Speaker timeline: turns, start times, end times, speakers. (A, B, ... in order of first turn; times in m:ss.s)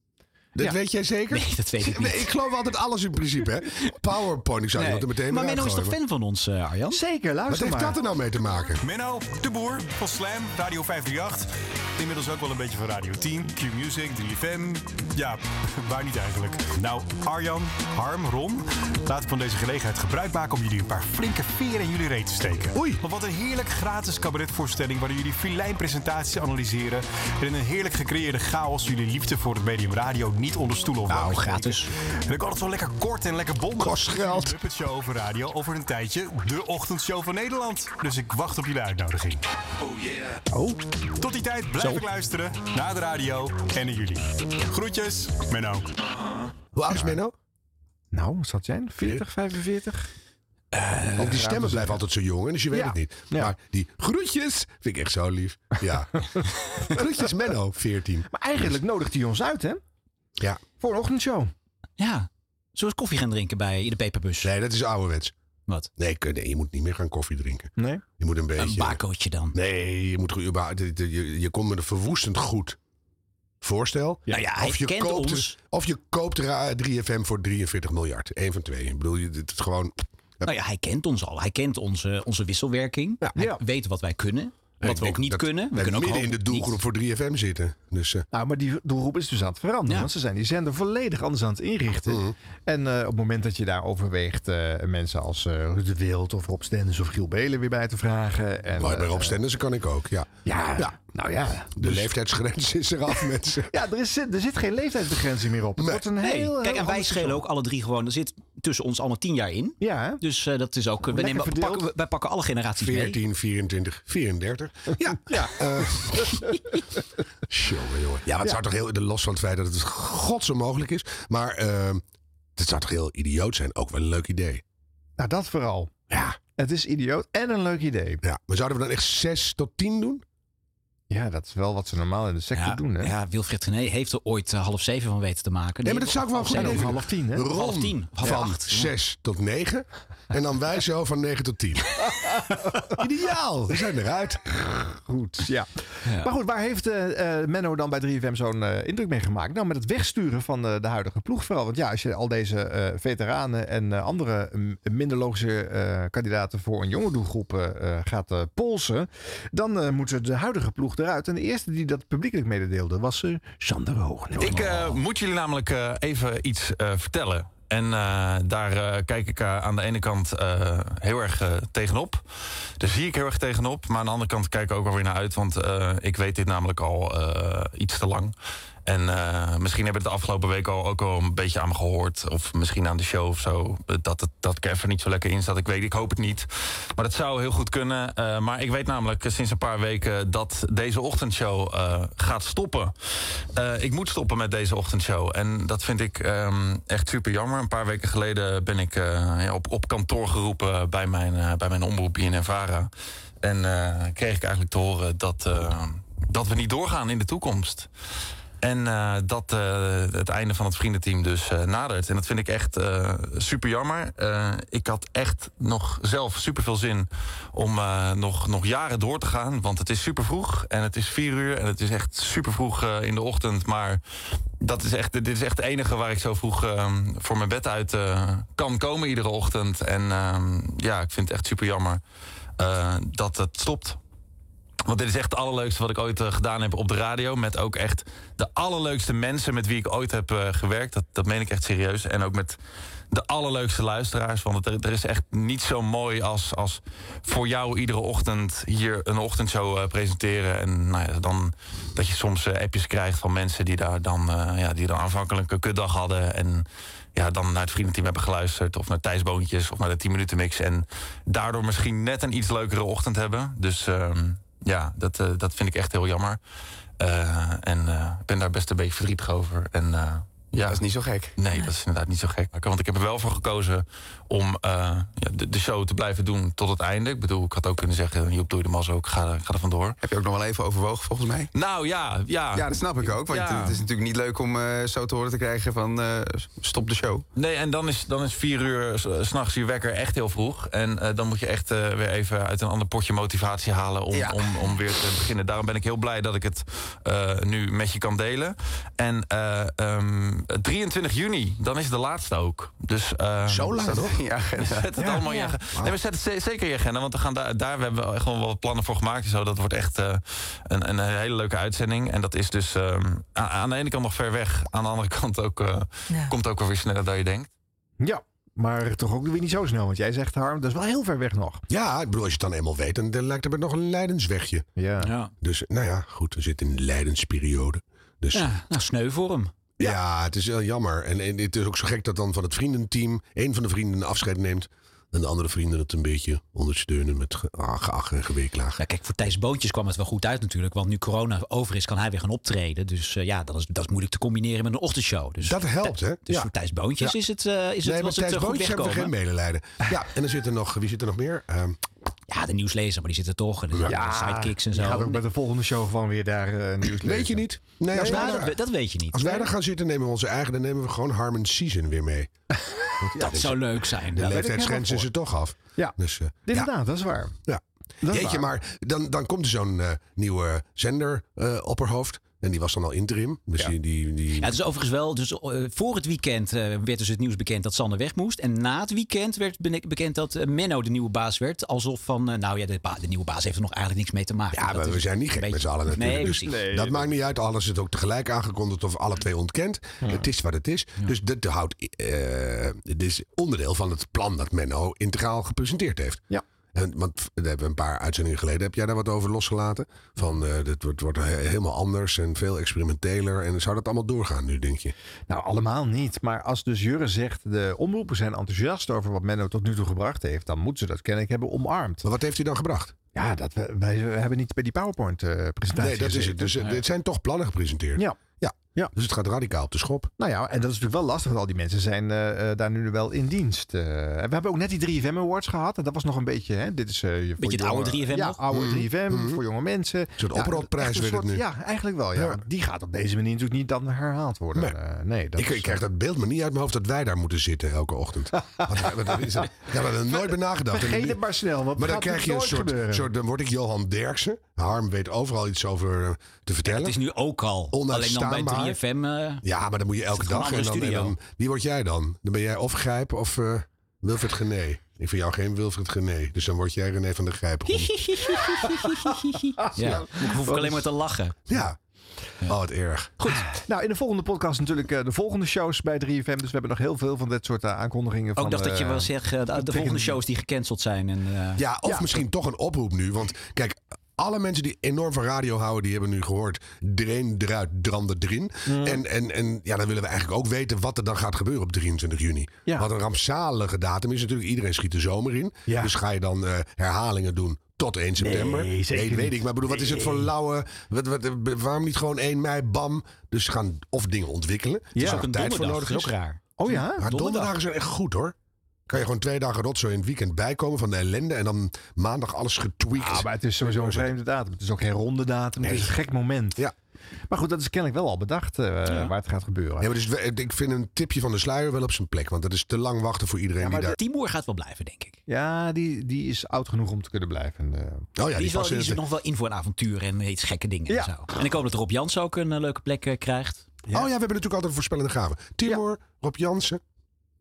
0:00.6-0:06.0 A
0:01.3-0:02.3 B
0:04.7-0:07.0 B
0:06.9-0:08.0 C
0:07.5-0:08.8 A
0:08.8-0:39.4 D
0:22.7-0:23.0 A
0:31.1-0:31.9 B
0:33.8-0:34.5 A
0:41.2-0:45.9 D
0:46.7-0:47.3 A
0:48.1-0:50.0 C
0:50.7-0:51.2 B
0:51.2-0:52.0 C
0:51.2-0:56.3 A
0:52.7-0:53.5 C
0:56.9-0:58.3 A
0:58.3-0:59.8 C
1:00.8-1:01.5 C
1:02.0-1:04.5 B
1:04.4-1:05.3 A
1:06.0-1:09.0 A
1:07.8-1:08.0 C
1:08.6-1:09.6 B
1:09.5-1:12.8 A
1:13.6-1:20.5 A
1:14.3-1:15.6 B
1:20.4-1:26.8 B
1:24.8-1:28.2 A
1:28.3-1:39.4 C
1:32.1-1:32.3 A
1:38.8-1:40.9 A
1:40.4-1:42.1 C
1:41.8-1:43.7 A
1:43.7-1:47.4 C
1:46.2-1:53.2 B
1:49.8-1:50.2 C
1:51.1-1:51.8 C
1:52.8-1:56.5 A
1:55.2-1:56.5 C
1:57.5-2:02.0 A
2:02.6-2:04.6 A
2:05.2-2:05.9 C
2:06.1-2:06.4 A
2:06.6-2:08.2 C
2:08.2-2:10.2 A
2:11.1-2:13.1 C
2:12.5-2:16.9 B
2:15.8-2:22.4 A
2:16.5-2:17.5 C
2:17.5-2:18.9 B
2:23.0-2:23.8 C
2:23.6-2:25.4 A
2:25.3-2:25.7 C
2:26.0-2:26.3 B
2:26.2-2:44.9 C
2:44.4-2:52.2 E
2:44.4-2:44.9 B
2:52.8-2:58.3 E
2:58.8-3:12.9 E
3:13.5-3:22.9 E
3:23.4-3:27.9 E
3:28.6-3:44.0 E
3:44.6-3:52.0 E
3:52.6-3:54.0 E
3:54.8-4:02.6 E
4:03.1-4:26.4 E
4:27.0-4:30.8 E
4:30.7-4:31.3 F
4:31.4-4:40.0 E
4:40.0-4:41.5 F
4:41.5-4:43.8 E
4:42.5-4:47.2 F
4:47.4-5:03.9 E
4:54.1-4:54.7 F
5:03.5-5:04.1 A
5:03.8-5:04.9 F
5:04.6-5:17.5 E
5:05.0-5:05.3 C
5:18.0-5:21.6 C
5:21.7-5:24.6 A
5:24.8-5:25.1 C
5:25.0-5:25.3 B
5:25.4-5:28.5 A
5:28.3-5:29.5 B
5:29.8-5:38.8 A
5:38.8-5:49.1 B
5:45.4-5:47.1 A
5:47.8-5:51.8 A
5:52.3-5:55.2 B
5:53.8-5:58.5 C
5:57.0-5:58.6 A
5:57.9-5:59.5 B
5:59.1-6:02.3 A
6:03.0-6:03.6 A
6:03.0-6:03.4 C
6:03.3-6:04.9 B
6:04.1-6:06.7 A
6:04.2-6:05.1 C
6:05.8-6:07.3 C
6:07.5-6:14.5 A
6:08.0-6:08.5 C
6:14.4-6:26.6 B
6:24.5-6:36.2 A
6:26.0-6:27.1 C
6:30.0-6:30.3 C
6:36.7-6:44.9 A
6:45.3-6:52.0 C
6:52.0-6:52.9 A
6:53.1-6:56.8 C
6:55.8-7:00.1 A
7:00.2-7:15.8 C
7:07.4-7:08.4 B
7:08.5-7:09.4 A
7:10.2-7:11.4 A
7:15.4-7:21.2 A
7:20.7-7:23.1 C
7:21.8-7:27.0 A
7:26.6-7:29.4 B
7:27.7-7:28.8 A
7:29.4-7:38.0 A
7:30.1-7:31.1 B
7:37.7-7:41.5 B
7:39.8-7:40.8 C
7:41.5-7:41.8 A
7:42.5-7:43.1 A
7:43.2-7:43.5 B
7:43.5-7:50.2 C
7:48.4-7:51.6 B
7:51.6-8:16.1 A
7:51.8-7:52.2 C
7:58.6-7:59.0 C
8:05.7-8:05.9 C
8:08.2-8:10.3 C
8:14.9-8:15.2 C
8:15.0-8:17.5 B
8:16.6-8:17.1 C
8:17.0-8:18.3 A
8:18.9-8:24.1 A
8:23.0-8:26.6 C
8:25.6-8:25.9 A
8:27.3-8:29.9 C
8:29.8-8:34.0 A
8:33.6-8:35.2 B
8:35.3-8:38.0 C
8:38.2-8:39.0 A
8:38.3-8:43.7 B
8:43.9-8:46.8 A